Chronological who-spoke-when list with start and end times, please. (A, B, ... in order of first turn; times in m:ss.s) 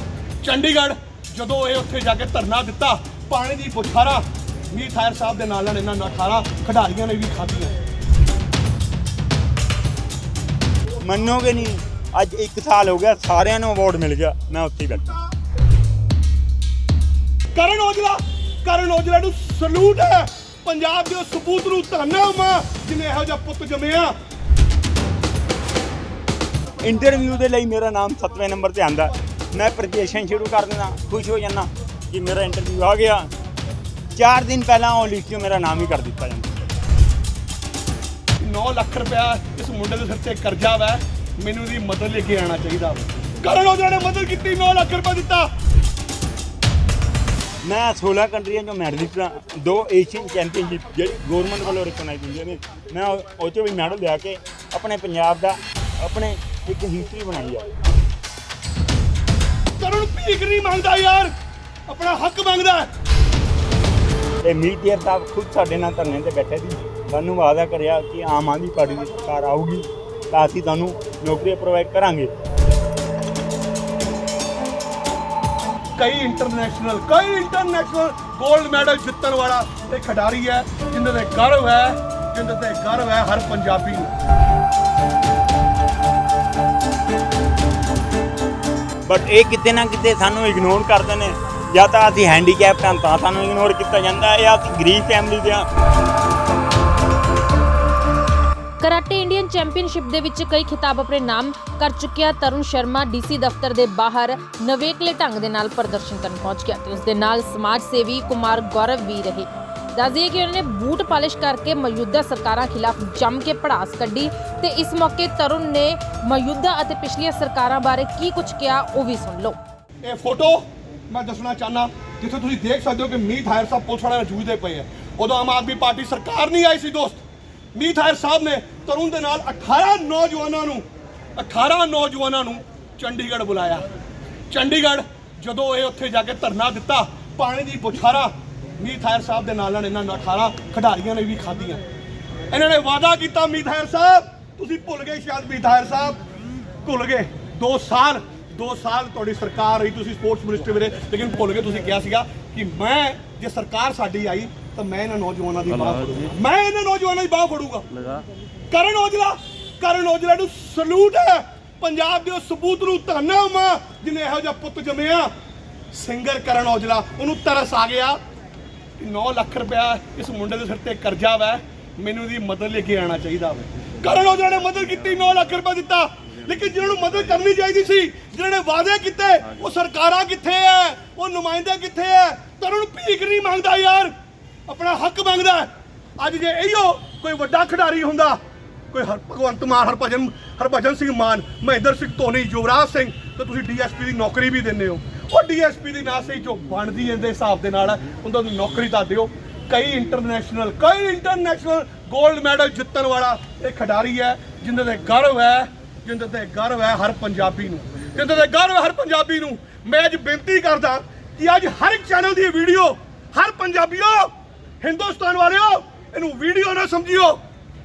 0:00.4-0:07.7 A
0:11.0-0:15.2 B
0:17.6-0:24.2 A
0:26.8-0:33.3 B
0:34.2-0:36.6 B
0:38.4-0:45.5 A
0:47.6-0:57.7 B
0:59.8-1:01.3 A
1:01.9-1:02.9 A
1:04.4-1:12.3 B
1:16.0-1:24.1 A
1:29.1-1:35.7 B
1:38.8-1:59.6 C
2:00.0-2:07.2 A
2:07.7-2:10.8 A
2:11.4-2:13.8 A
2:14.5-2:21.8 A
2:22.5-2:26.2 A
2:26.8-2:37.8 A
2:38.7-2:45.3 A
2:45.9-2:48.2 A
2:49.0-3:04.1 A
3:04.7-3:08.4 A
3:08.9-3:37.4 A